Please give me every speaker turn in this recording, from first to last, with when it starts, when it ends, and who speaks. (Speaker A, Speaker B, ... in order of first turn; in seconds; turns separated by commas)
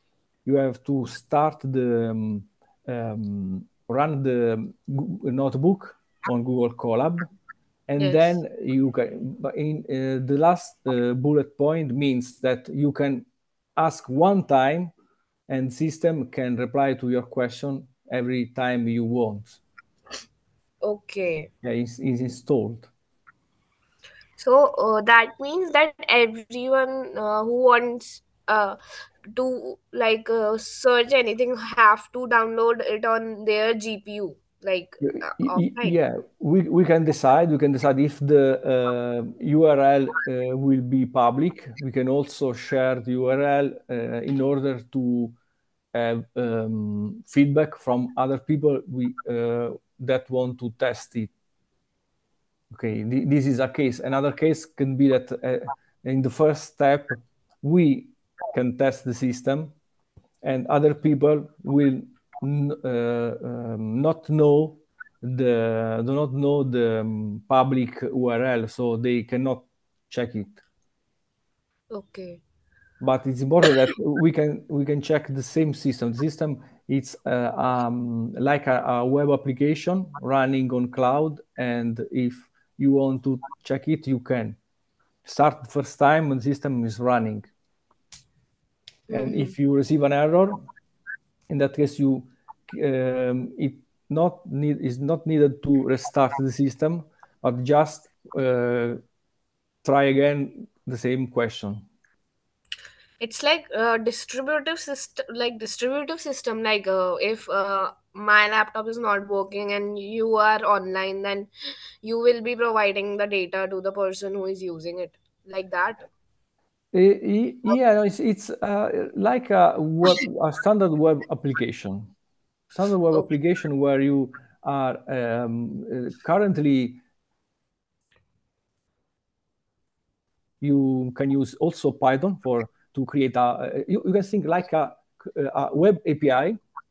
Speaker A: 0.4-7.3, Speaker A: 7.9-14.9, Speaker B: 8.0-8.4, Speaker A: 15.5-19.6, Speaker B: 20.8-21.5, Speaker A: 21.6-22.9, Speaker B: 24.4-28.8, Speaker B: 29.3-36.0, Speaker A: 35.0-45.3, Speaker A: 45.9-51.3, Speaker A: 52.7-59.7, Speaker A: 60.4-70.6, Speaker B: 71.9-72.4, Speaker A: 73.0-84.6, Speaker A: 85.2-87.5, Speaker B: 89.1-89.5, Speaker A: 89.1-90.7, Speaker A: 91.5-99.0, Speaker A: 99.8-101.8, Speaker B: 103.2-111.5, Speaker B: 112.0-116.0, Speaker A: 116.9-122.1, Speaker A: 122.7-127.0, Speaker A: 130.6-136.6